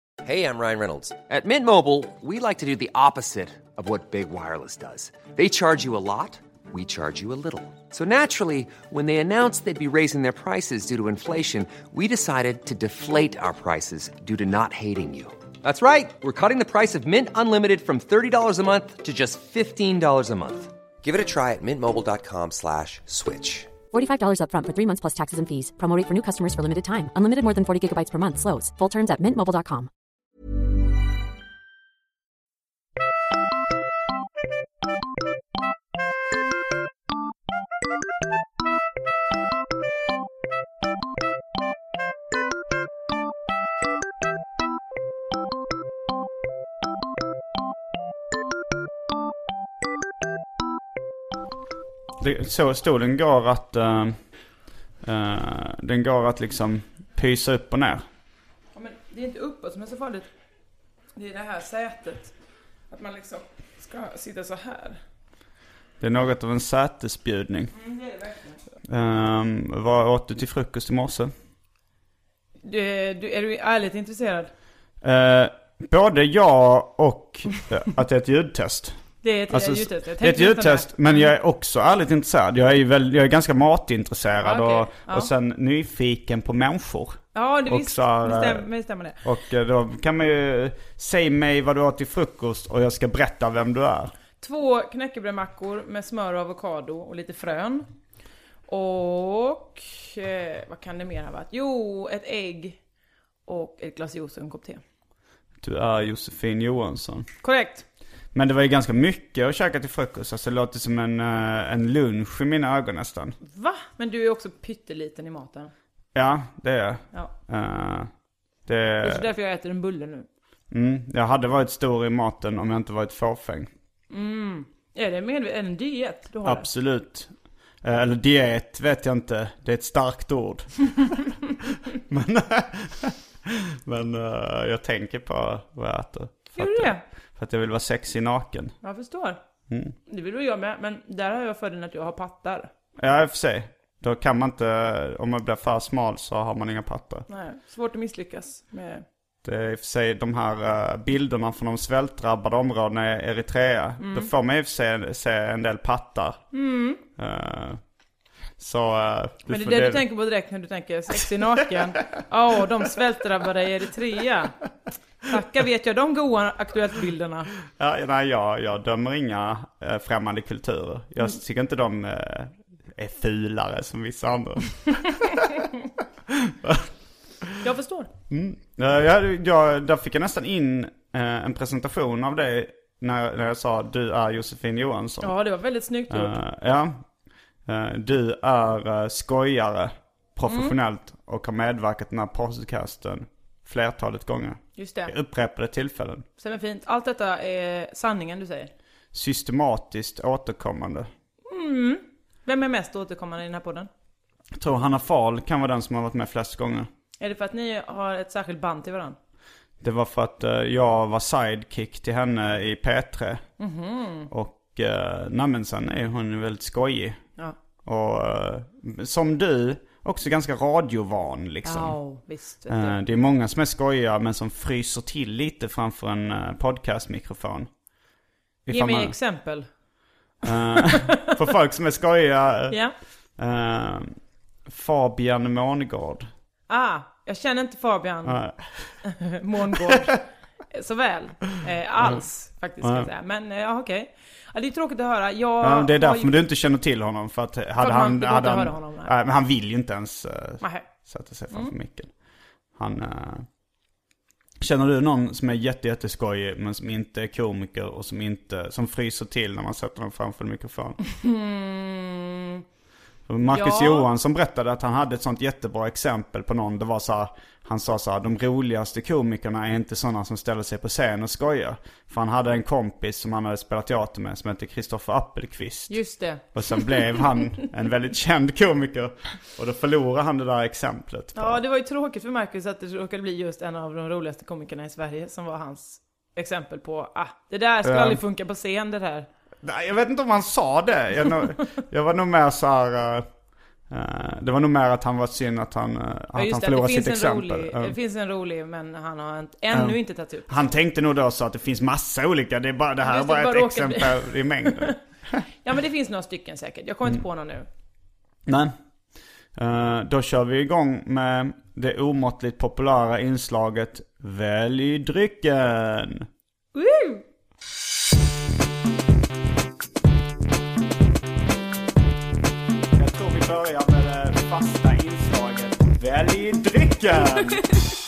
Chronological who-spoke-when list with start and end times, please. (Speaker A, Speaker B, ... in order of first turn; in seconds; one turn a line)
Speaker A: 0.2-23.7
Speaker B: 23.9-29.9
Speaker C: 52.2-54.2
Speaker C: 55.0-58.1
Speaker D: 58.8-60.3
Speaker D: 61.1-62.3
Speaker D: 62.9-65.0
Speaker C: 66.0-67.7
Speaker D: 67.8-68.6
Speaker C: 68.9-71.3
Speaker D: 72.6-74.5
Speaker C: 75.0-88.7
Speaker D: 79.2-81.2
Speaker D: 84.4-85.3
Speaker D: 87.3-89.2
Speaker C: 89.2-94.1
Speaker D: 94.4-97.9
Speaker D: 98.7-102.8
Speaker D: 103.5-104.8
Speaker C: 105.6-107.3
Speaker D: 107.4-107.8
Speaker C: 108.3-113.4
Speaker D: 113.4-115.7
Speaker C: 116.2-118.1
Speaker C: 118.7-119.3
Speaker D: 119.0-120.3
Speaker C: 120.7-123.7
Speaker D: 124.1-126.7
Speaker C: 126.4-131.3
Speaker C: 132.1-138.8
Speaker D: 136.6-137.0
Speaker D: 138.8-139.4
Speaker C: 139.7-139.9
Speaker D: 140.1-142.7
Speaker C: 143.0-147.3
Speaker D: 147.3-149.1
Speaker C: 149.4-156.4
Speaker D: 154.0-154.3
Speaker D: 156.5-157.0
Speaker C: 157.2-157.8
Speaker C: 158.6-160.0
Speaker D: 159.5-164.6
Speaker D: 165.2-167.5
Speaker C: 167.8-175.6
Speaker C: 176.3-176.8
Speaker D: 177.6-178.1
Speaker C: 178.3-185.3
Speaker D: 185.2-186.3
Speaker C: 186.1-187.0
Speaker C: 187.7-196.3
Speaker D: 190.5-190.8
Speaker D: 194.8-195.1
Speaker D: 196.4-198.7
Speaker C: 199.1-201.1
Speaker D: 201.5-203.9
Speaker C: 204.6-206.9
Speaker D: 207.2-209.2
Speaker C: 209.8-213.4
Speaker D: 213.6-214.3
Speaker C: 214.3-217.2
Speaker C: 217.8-222.0
Speaker D: 221.7-223.0
Speaker C: 222.7-227.7
Speaker C: 228.7-229.1
Speaker D: 228.7-229.7
Speaker C: 230.4-232.8
Speaker D: 230.5-231.4
Speaker D: 232.7-233.0
Speaker C: 233.4-236.3
Speaker D: 236.7-238.4
Speaker C: 238.2-239.0
Speaker D: 239.0-246.3
Speaker C: 239.7-240.1
Speaker C: 242.8-243.1
Speaker C: 245.6-252.1
Speaker D: 247.8-249.2
Speaker D: 250.6-250.9
Speaker C: 252.8-253.5
Speaker C: 254.6-261.0
Speaker D: 261.0-262.6
Speaker C: 263.3-276.0
Speaker D: 263.5-264.1
Speaker D: 275.9-277.3
Speaker C: 276.5-281.6
Speaker D: 281.4-289.3
Speaker C: 287.8-288.2
Speaker C: 289.6-293.3
Speaker C: 293.9-298.0
Speaker D: 296.4-300.6
Speaker C: 299.7-305.4
Speaker D: 303.0-305.0
Speaker D: 305.6-307.7
Speaker C: 308.5-308.8
Speaker C: 309.6-316.3
Speaker D: 316.7-317.2
Speaker C: 322.9-327.8
Speaker D: 327.3-327.9